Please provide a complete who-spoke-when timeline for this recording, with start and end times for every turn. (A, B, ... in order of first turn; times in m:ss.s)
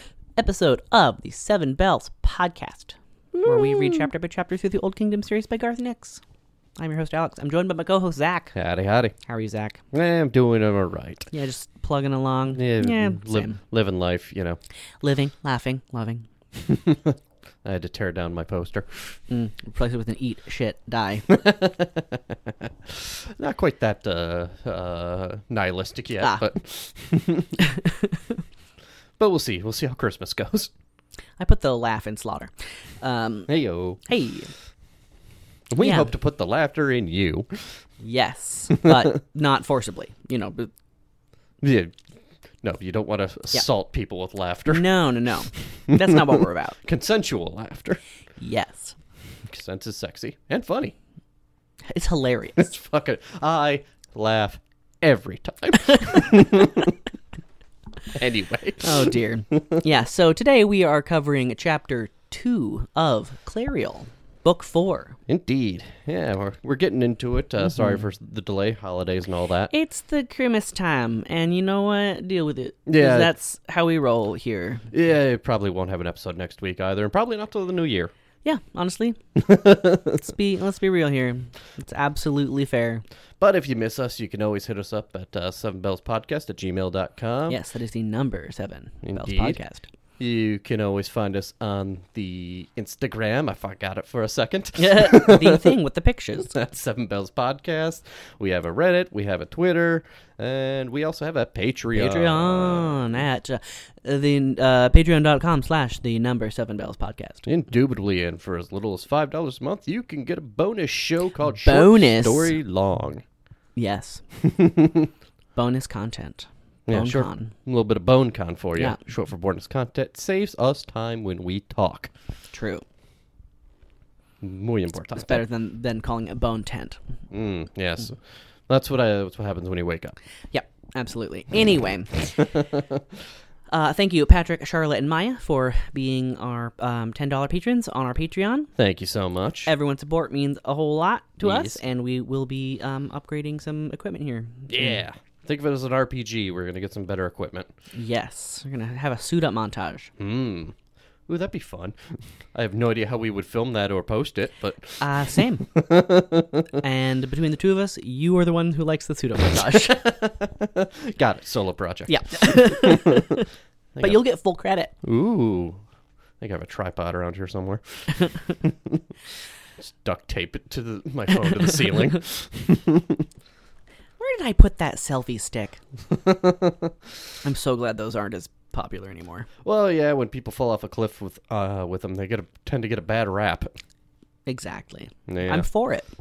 0:00.4-0:06.2 A
0:03.3-0:04.1 B
0:06.8-0:08.5 A
0:08.5-0:09.1 B
0:09.3-0:09.8 A
0:09.9-0:11.3 B
0:11.3-0:13.6 A
0:12.5-0:14.6 B
0:15.0-0:16.3 A
0:16.6-0:19.2 B
0:19.3-0:21.3 A
0:21.3-0:27.5 B
0:27.7-0:28.1 A
0:29.2-0:30.7 B
0:31.4-0:33.5 A
0:33.5-0:34.0 B
0:34.0-0:34.5 A
0:35.7-0:37.8 B
0:35.8-0:36.1 A
0:38.0-0:40.7 A
0:41.6-0:42.0 B
0:42.6-0:44.9 B
0:44.7-0:46.8 A
0:45.9-0:48.0 B
0:48.4-0:49.0 A
0:49.4-0:50.9 B
0:51.9-0:52.7 A
0:52.6-0:57.0 B
0:58.1-0:59.6 B
0:58.8-1:05.2 A
1:05.3-1:09.7 B
1:09.7-1:14.9 A
1:12.8-1:13.3 B
1:14.9-1:18.1 B
1:18.4-1:19.2 A
1:19.4-1:20.2 B
1:20.1-1:23.0 A
1:23.4-1:27.6 B
1:27.5-1:29.9 A
1:29.0-1:29.6 B
1:30.2-1:35.7 B
1:34.8-1:36.5 A
1:36.5-1:43.1 B
1:41.9-1:47.5 A
1:47.4-1:53.2 B
1:51.6-1:52.6 A
1:53.8-1:54.2 A
1:54.4-1:55.1 B
1:55.6-1:57.5 A
1:56.9-2:02.1 B
2:02.5-2:02.8 A
2:04.4-2:05.4 B
2:05.2-2:07.0 A
2:07.3-2:10.2 B
2:10.5-2:12.5 A
2:13.7-2:18.7 A
2:18.8-2:19.7 B
2:19.6-2:25.0 A
2:21.4-2:21.8 B
2:24.7-2:27.7 B
2:27.9-2:30.1 A
2:30.2-2:30.7 B
2:31.3-2:36.7 B
2:35.0-2:35.6 A
2:36.8-2:40.0 A
2:39.5-2:44.2 B
2:42.1-2:43.4 A
2:44.0-2:44.9 A
2:45.0-2:45.8 B
2:46.4-2:49.0 B
2:49.8-2:53.2 B
2:54.2-2:55.8 A
2:56.1-2:56.9 B
2:57.4-2:59.5 A
2:59.6-3:03.7 B
3:04.4-3:06.1 A
3:05.3-3:05.7 B